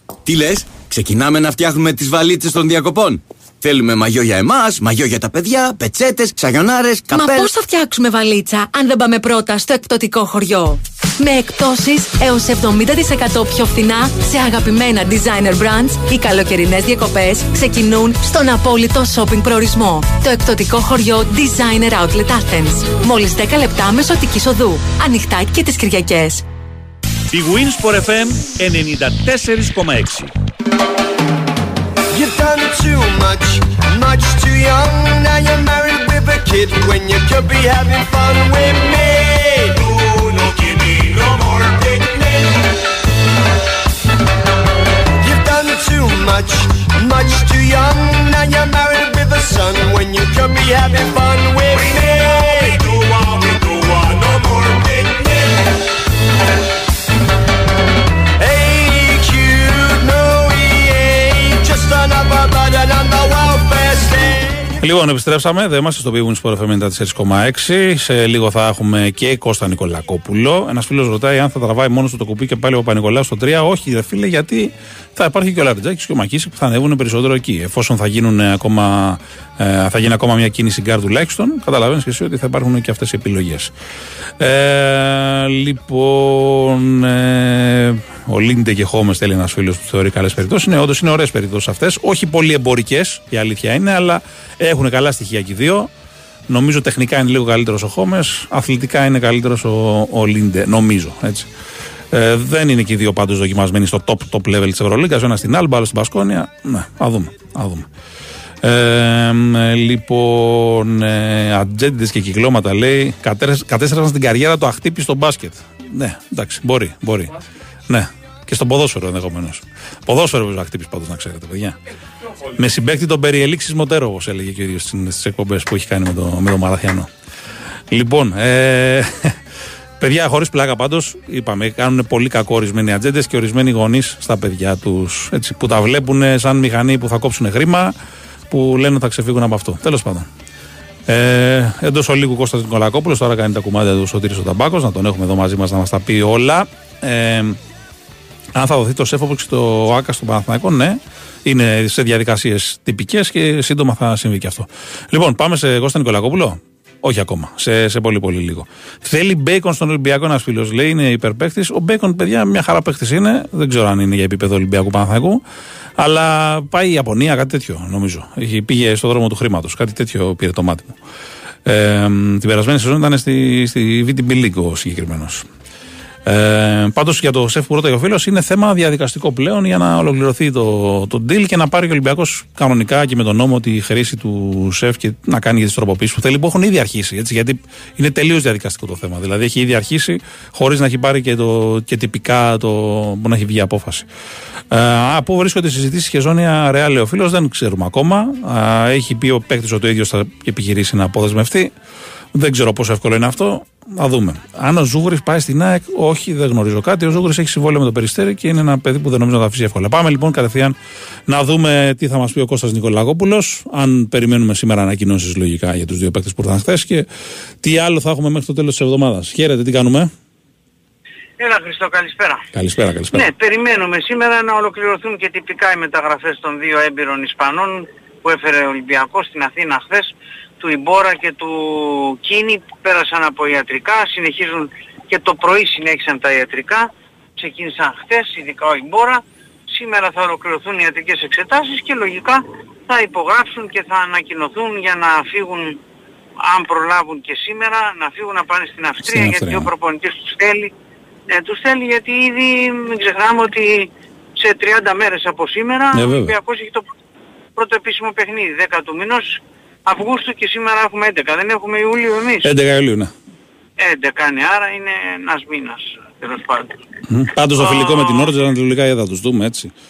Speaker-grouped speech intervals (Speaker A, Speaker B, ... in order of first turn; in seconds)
Speaker A: 0.3-7.5
Speaker B: 7.1-26.4
Speaker C: 27.3-30.3
Speaker D: 32.1-42.6, 45.2-55.6, 58.4-64.8
Speaker E: 64.8-83.7, 84.4-95.9, 96.5-101.5, 102.1-107.9, 108.6-117.3, 117.9-121.8, 122.5-127.1, 127.9-129.4, 130.0-137.9, 138.5-140.3, 141.1-147.6, 148.5-165.4, 166.0-170.9, 171.6-175.4, 176.3-194.1, 194.7-201.7, 202.3-217.1, 217.6-220.1, 222.5-223.3, 249.1-249.7, 255.9-256.4, 262.4-263.1, 267.1-269.7
Speaker F: 221.4-222.4, 223.1-245.8, 246.4-250.7, 251.3-256.9, 257.6-262.5, 263.8-266.7, 267.6-268.3